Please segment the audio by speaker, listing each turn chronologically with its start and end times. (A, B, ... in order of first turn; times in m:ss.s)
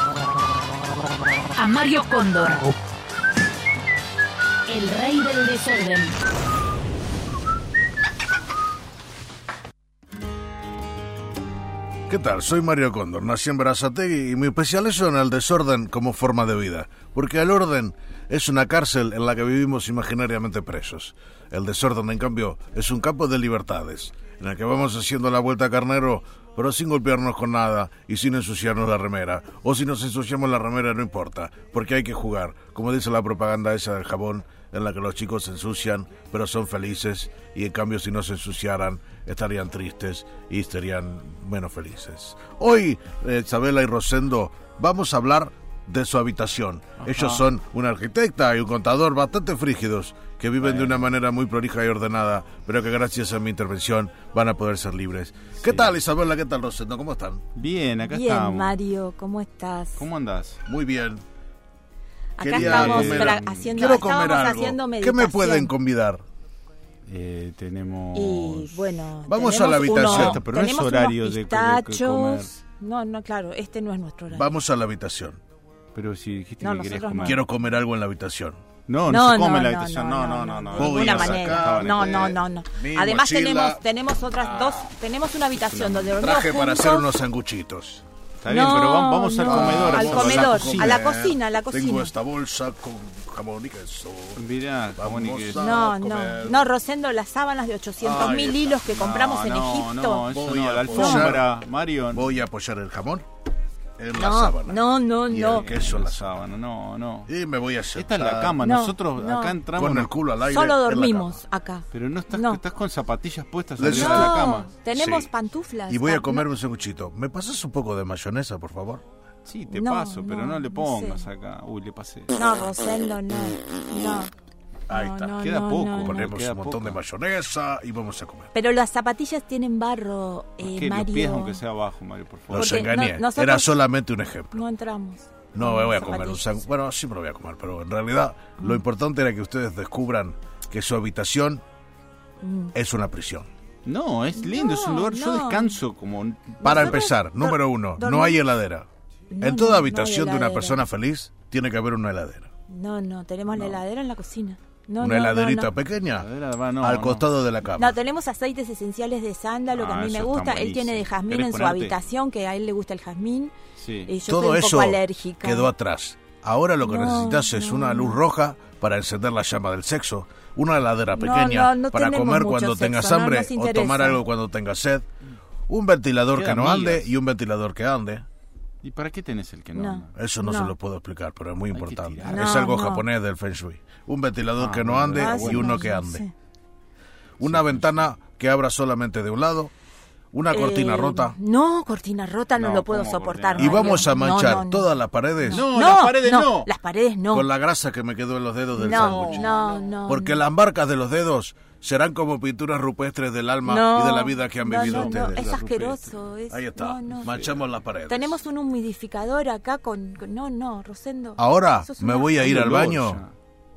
0:01.6-0:02.7 A
0:04.7-0:06.2 A
0:12.1-0:57.4 B
0:47.0-0:47.4 C
0:50.6-0:51.1 C
0:55.6-0:56.0 C
0:57.6-0:58.7 C
0:58.0-1:00.0 D
1:00.0-1:00.6 C
1:00.7-1:01.2 B
1:02.4-1:05.7 D
1:02.4-1:06.2 B
1:02.5-1:04.1 C
1:07.1-1:08.9 C
1:08.1-1:14.5 D
1:09.3-1:10.4 B
1:09.8-1:12.5 C
1:14.3-1:15.4 B
1:15.9-1:17.5 C
1:16.6-1:17.5 D
1:17.2-1:18.6 B
1:18.9-1:22.4 C
1:19.1-1:27.1 D
1:20.8-1:23.8 B
1:24.4-1:24.8 B
1:25.7-1:26.1 C
1:26.2-1:28.0 B
1:28.4-1:31.0 C
1:28.5-1:32.1 D
1:29.4-1:36.7 B
1:34.4-1:35.7 C
1:35.6-1:40.3 D
1:38.0-1:38.6 B
1:38.0-1:42.4 C
1:40.3-1:41.5 B
1:40.9-1:41.3 D
1:42.1-1:43.2 B
1:44.0-1:46.4 B
1:44.1-1:45.7 D
1:45.5-1:47.3 C
1:47.3-1:48.6 B
1:47.9-1:50.2 C
1:48.6-1:49.6 D
1:49.8-1:51.4 B
1:50.4-1:52.6 D
1:51.9-1:54.7 C
1:53.8-1:55.3 B
1:53.8-1:56.5 D
1:55.9-1:59.0 B
1:59.4-2:02.4 C
1:59.7-2:01.3 D
2:02.4-2:04.3 D
2:04.9-2:05.4 B
2:04.9-2:06.3 D
2:05.2-2:07.0 C
2:06.0-2:08.5 B
2:08.5-2:11.6 D
2:10.6-2:12.9 C
2:12.5-2:14.6 B
2:12.5-2:13.8 D
2:14.5-2:16.6 D
2:15.5-2:21.6 B
2:22.4-2:22.8 D
2:22.7-2:23.5 B
2:23.8-2:27.0 C
2:24.4-2:25.8 D
2:26.6-2:28.4 D
2:26.6-2:28.9 B
2:29.3-2:30.9 D
2:29.4-2:32.5 B
2:32.7-2:35.7 D
2:33.6-2:33.8 C
2:35.0-2:36.3 B
2:36.2-2:37.3 C
2:36.8-2:38.0 B
2:37.7-2:43.5 D
2:39.7-2:42.0 C
2:43.8-2:44.1 C
2:44.1-2:45.7 D
2:44.3-2:55.1 B
2:46.8-2:48.2 D
2:51.1-2:54.2 D
2:55.7-2:58.3 B
2:56.3-2:57.1 C
2:58.8-3:00.2 C
2:59.7-3:00.8 D
3:00.1-3:06.2 B
3:01.7-3:02.6 C
3:02.2-3:03.1 D
3:04.6-3:06.0 C
3:05.2-3:06.3 D
3:07.4-3:09.7 B
3:07.4-3:08.1 C
3:10.3-3:11.4 B
3:10.5-3:17.5 D
3:12.6-3:14.1 C
3:13.6-3:15.7 B
3:15.5-3:16.7 C
3:17.3-3:19.5 B
3:18.8-3:20.4 D
3:18.8-3:19.9 C
3:20.1-3:25.6 B
3:23.6-3:27.4 D
3:24.7-3:26.1 C
3:26.5-3:28.4 B
3:27.2-3:27.6 C
3:28.1-3:32.6 D
3:31.4-3:33.2 B
3:32.4-3:33.3 C